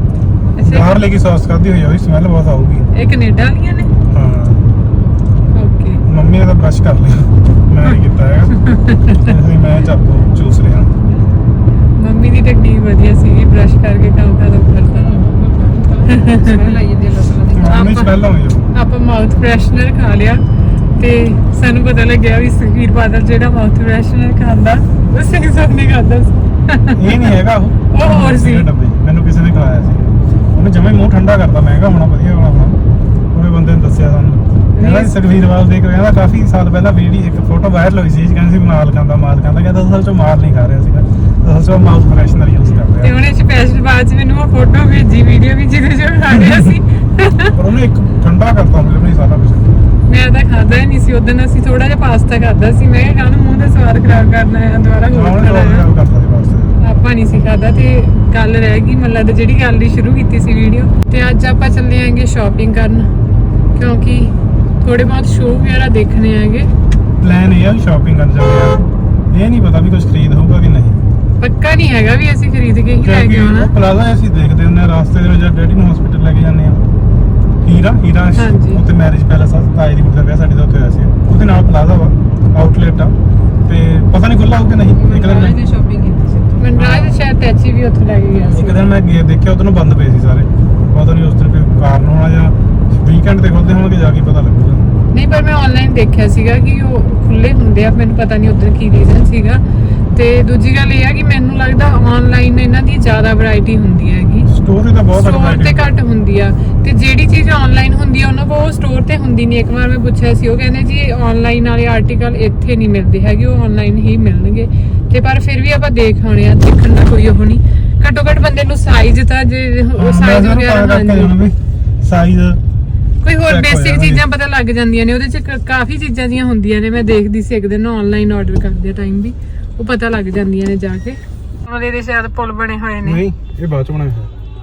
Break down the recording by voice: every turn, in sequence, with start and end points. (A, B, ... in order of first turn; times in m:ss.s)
0:00.6-0:01.0 A
0:00.6-0:02.9 B
0:02.9-0:03.9 A
0:04.1-0:04.8 B
0:05.5-0:06.0 A
0:06.0-0:08.5 B
0:08.6-0:09.3 A
0:09.1-0:10.9 B
0:12.0-0:15.3 A
0:15.0-0:18.0 C
0:16.1-0:16.6 A
0:17.5-0:18.7 B
0:17.6-0:18.2 A
0:18.7-0:20.4 A
0:21.0-0:27.3 A
0:26.9-0:32.8 B
0:27.9-0:28.7 A
0:33.3-0:43.1 B
0:34.8-0:35.1 A
0:43.0-0:47.5 A
0:46.3-0:46.8 B
0:47.5-0:49.8 B
0:50.1-0:55.8 A
0:55.1-0:56.8 B
0:56.8-1:03.1 A
1:03.7-1:06.7 A
1:07.2-1:11.0 B
1:11.4-1:13.7 A
1:13.0-1:16.8 B
1:17.6-1:23.1 B
1:18.4-1:18.8 A
1:23.6-1:25.6 B
1:24.9-1:26.7 C
1:26.6-1:28.8 A
1:26.7-1:27.2 B
1:28.3-1:34.9 B
1:35.1-1:39.6 A
1:40.1-1:44.5 A
1:44.4-1:45.9 B
1:45.1-2:01.4 A
2:00.0-2:02.6 B
2:03.2-2:13.2 A
2:03.4-2:04.2 B
2:13.0-2:14.3 B